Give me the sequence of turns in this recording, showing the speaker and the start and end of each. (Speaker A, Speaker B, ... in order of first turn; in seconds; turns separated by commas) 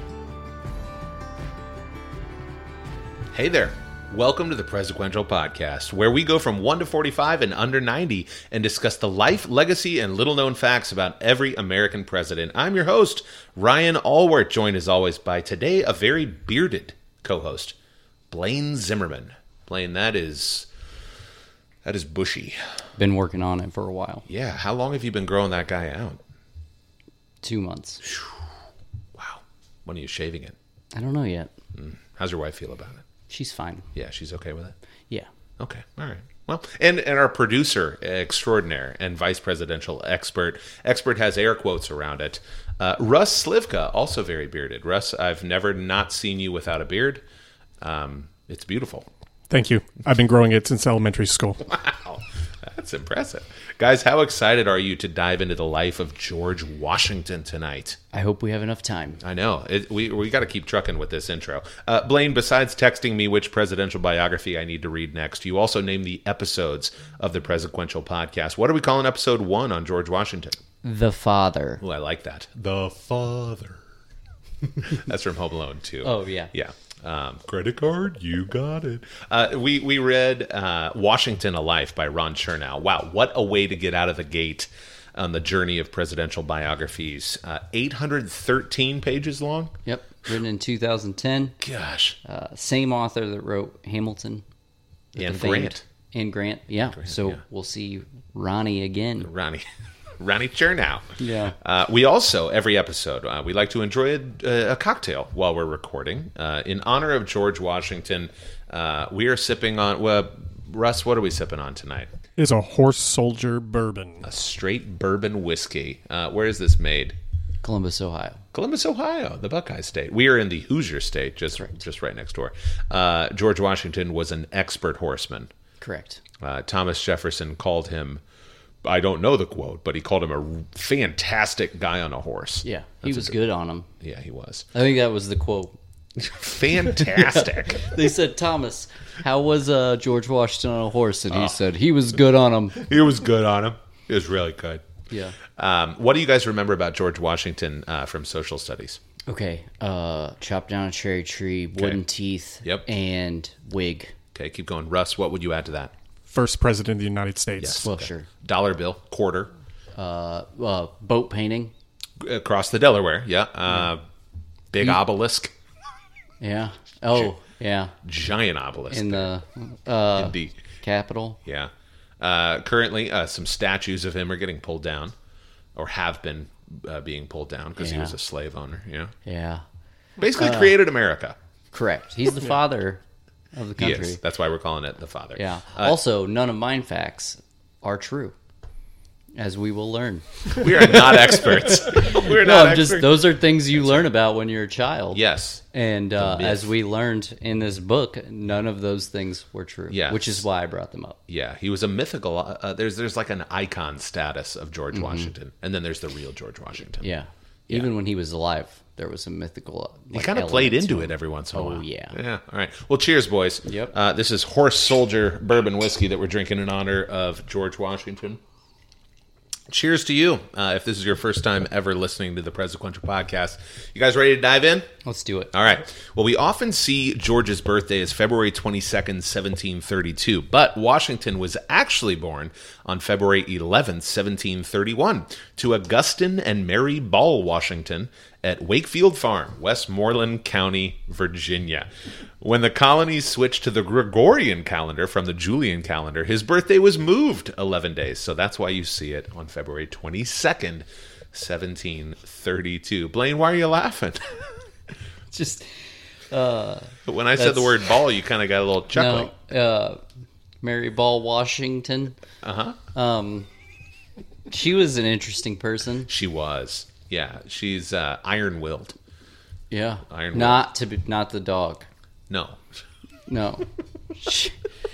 Speaker A: 3.3-17.8, Speaker A: 18.3-20.7, Speaker A: 21.8-22.6, Speaker B: 23.0-24.2, Speaker A: 24.3-26.2, Speaker B: 27.4-28.0, Speaker A: 28.0-28.3, Speaker A: 29.1-30.5, Speaker B: 30.9-31.5, Speaker A: 31.7-33.0, Speaker B: 33.3-33.9, Speaker A: 33.9-34.8, Speaker A: 35.6-47.2, Speaker A: 47.8-49.1, Speaker C: 49.5-51.6, Speaker A: 51.7-58.0, Speaker B: 58.1-59.2, Speaker A: 59.2-70.6, Speaker B: 70.8-71.8, Speaker A: 71.8-73.8, Speaker A: 74.8-89.7, Speaker B: 76.0-76.5, Speaker B: 89.8-91.6, Speaker A: 91.6-92.2, Speaker B: 92.2-94.4, Speaker B: 95.1-99.3, Speaker A: 95.2-95.8, Speaker A: 97.0-97.4, Speaker A: 99.2-99.6, Speaker A: 100.2-112.1, Speaker B: 101.2-101.5, Speaker C: 112.4-114.2, Speaker A: 114.2-117.2, Speaker B: 117.6-118.4, Speaker A: 118.5-125.5, Speaker B: 125.8-126.2, Speaker A: 126.4-128.2, Speaker A: 128.8-133.4, Speaker B: 132.6-133.9, Speaker A: 134.0-134.7, Speaker B: 134.7-135.8, Speaker A: 136.2-138.0, Speaker B: 136.8-142.8, Speaker A: 142.8-144.8, Speaker B: 145.1-145.4, Speaker A: 145.5-149.0, Speaker B: 149.3-154.1, Speaker A: 154.3-155.9, Speaker C: 156.3-157.8, Speaker A: 157.6-159.5, Speaker B: 157.8-158.3, Speaker B: 159.9-161.7, Speaker A: 162.2-164.0, Speaker A: 164.7-165.5, Speaker B: 166.4-167.9, Speaker A: 168.0-169.3, Speaker B: 168.9-171.4, Speaker A: 170.2-170.6, Speaker A: 171.4-175.1, Speaker A: 175.7-179.1, Speaker B: 177.8-178.2, Speaker B: 179.2-179.6, Speaker A: 180.2-181.3, Speaker B: 180.3-180.8, Speaker B: 181.7-183.0, Speaker B: 183.5-184.2, Speaker A: 183.8-186.0, Speaker B: 185.3-188.3, Speaker B: 189.3-201.2, Speaker A: 190.5-194.1, Speaker A: 195.1-195.6, Speaker A: 196.2-196.7, Speaker A: 199.9-200.4, Speaker A: 201.3-207.1, Speaker B: 204.9-205.3, Speaker B: 207.0-212.2, Speaker A: 210.1-218.4, Speaker B: 213.6-213.9, Speaker A: 219.7-224.9, Speaker B: 225.0-225.5, Speaker A: 225.5-241.9, Speaker A: 242.4-254.4, Speaker B: 255.3-255.7, Speaker B: 256.3-257.8, Speaker A: 257.0-259.3, Speaker B: 258.9-260.0, Speaker B: 260.6-262.2, Speaker A: 262.4-262.8, Speaker B: 262.9-263.5, Speaker B: 264.5-266.1, Speaker A: 266.1-268.9, Speaker B: 269.7-271.9, Speaker A: 270.1-270.6, Speaker A: 272.3-272.6, Speaker B: 273.3-274.6